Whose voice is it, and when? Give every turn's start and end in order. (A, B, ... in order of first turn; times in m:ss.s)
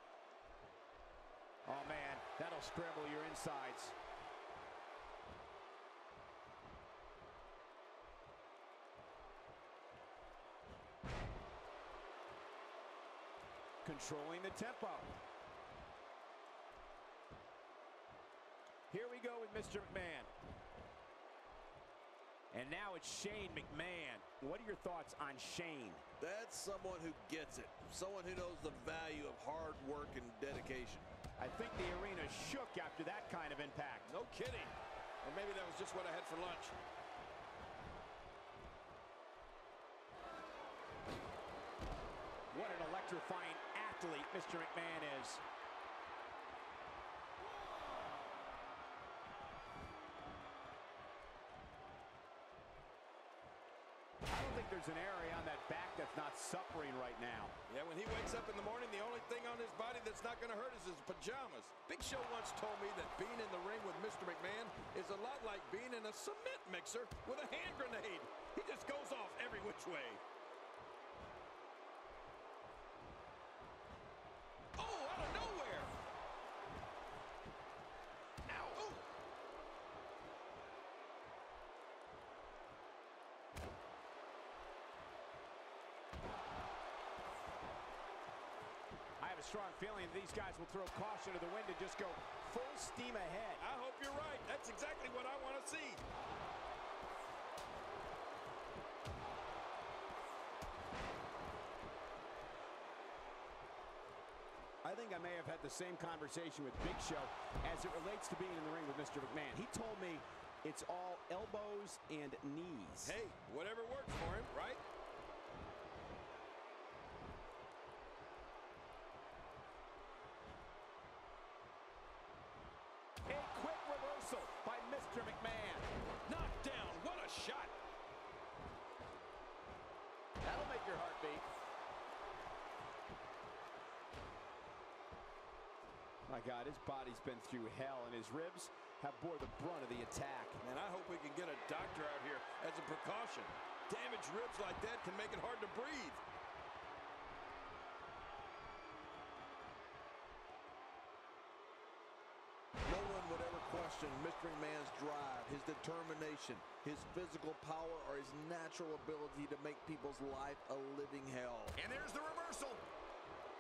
0:01.7-0:04.0 A
0:13.8-0:15.2 A
0:18.9-0:20.3 A
0:22.5-0:26.0 A
0:26.2-0:31.1 B
0:31.4-0:34.1 A
0:34.1-0:36.8 C
0:42.5-0:45.4 A
0:54.3-0:57.5 A
0:57.7-1:10.2 C
1:14.8-1:15.9 C
1:18.5-1:19.0 C
1:29.2-1:33.6 A
1:33.6-1:36.0 C
1:44.8-1:53.2 A
1:53.0-1:54.8 C
2:03.3-2:05.9 A
2:06.3-2:07.7 C
2:10.4-2:11.4 A
2:16.3-2:20.6 A
2:20.6-2:26.2 C
2:32.8-2:41.8 B
2:41.8-2:42.8 A